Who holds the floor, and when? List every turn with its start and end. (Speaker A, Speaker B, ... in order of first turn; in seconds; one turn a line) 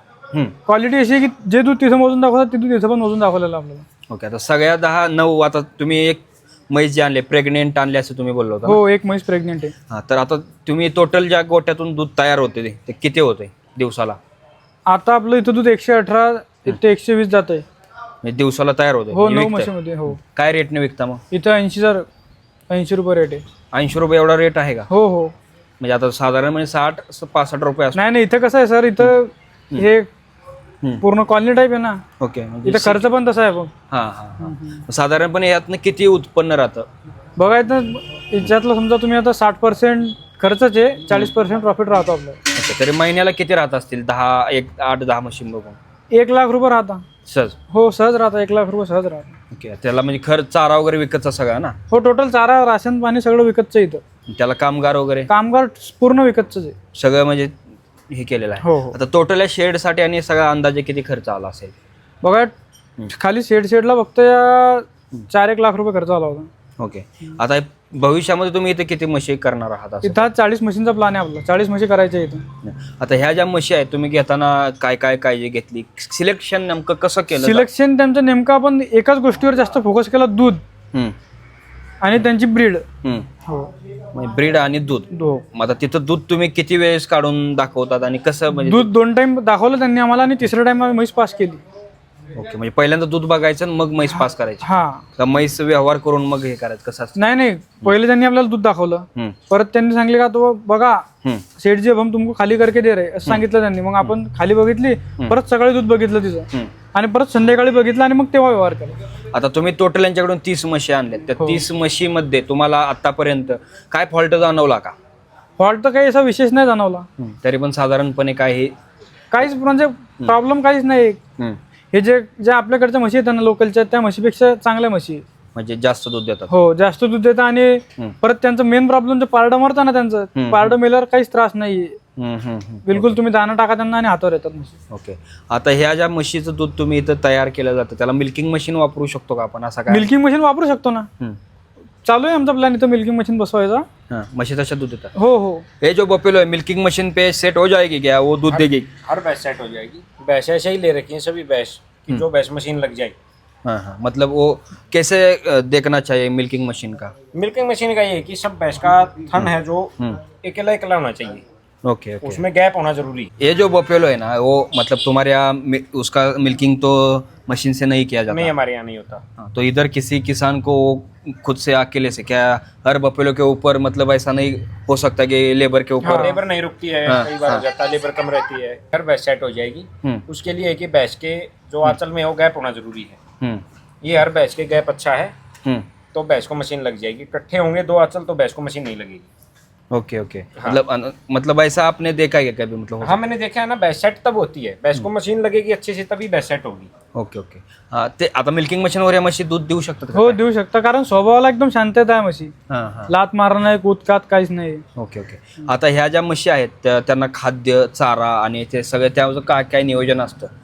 Speaker A: 0.7-3.8
Speaker B: 4.1-8.8
Speaker A: 8.6-9.7
Speaker B: 9.9-14.2
Speaker A: 14.9-17.6
Speaker B: 18.2-21.2
Speaker A: 19.1-20.2
Speaker A: 21.3-22.1
Speaker A: 22.7-23.4
Speaker B: 23.7-24.9
Speaker A: 24.9-25.3
Speaker B: 25.8-28.0
Speaker A: 27.9-30.1
Speaker A: 31.0-32.0
Speaker B: 32.2-33.1
Speaker A: 32.6-33.7
Speaker B: 33.9-36.9
Speaker A: 34.4-34.8
Speaker A: 37.4-42.4
Speaker B: 42.5-45.8
Speaker A: 46.1-47.0
Speaker B: 47.2-47.5
Speaker A: 47.7-49.4
Speaker B: 49.5-51.8
Speaker A: 51.9-54.0
Speaker B: 54.3-55.3
Speaker A: 55.3-56.7
Speaker B: 56.9-57.5
Speaker B: 58.1-61.7
Speaker A: 58.6-59.0
Speaker A: 62.2-62.5
Speaker A: 63.1-66.5
Speaker B: 66.8-70.3
Speaker A: 70.0-72.5
Speaker B: 72.6-77.7
Speaker A: 77.3-80.6
Speaker A: 82.0-82.8
Speaker A: 83.4-83.7
Speaker B: 84.1-88.9
Speaker A: 85.1-85.4
Speaker A: 88.5-91.6
Speaker B: 92.3-94.6
Speaker A: 94.6-95.0
Speaker B: 95.2-97.2
Speaker A: 97.1-101.0
Speaker A: 101.6-109.0
Speaker B: 109.3-114.9
Speaker A: 111.4-111.6
Speaker A: 115.6-117.1
Speaker B: 117.2-118.7
Speaker A: 119.3-121.2
Speaker A: 121.9-125.2
Speaker B: 125.5-126.5
Speaker A: 126.5-132.0
Speaker B: 130.3-130.8
Speaker B: 132.2-133.2
Speaker A: 132.8-134.8
Speaker B: 134.9-140.1
Speaker A: 139.9-141.1
Speaker A: 142.0-143.8
Speaker B: 144.1-145.1
Speaker A: 145.1-145.7
Speaker B: 145.8-148.9
Speaker C: 148.5-153.1
Speaker B: 153.6-157.1
Speaker C: 157.3-161.4
Speaker B: 159.3-160.2
Speaker B: 161.8-162.4
Speaker C: 162.2-163.3
Speaker B: 163.4-168.5
Speaker C: 168.3-169.2
Speaker B: 169.4-176.4
Speaker A: 176.0-176.4
Speaker C: 176.0-183.2
Speaker B: 177.1-177.6
Speaker C: 184.0-185.3
Speaker C: 186.1-189.3
Speaker B: 189.9-193.2
Speaker C: 193.0-196.9
Speaker B: 197.1-200.4
Speaker A: 200.1-202.5
Speaker B: 202.7-203.1
Speaker A: 203.1-204.8
Speaker B: 204.9-210.5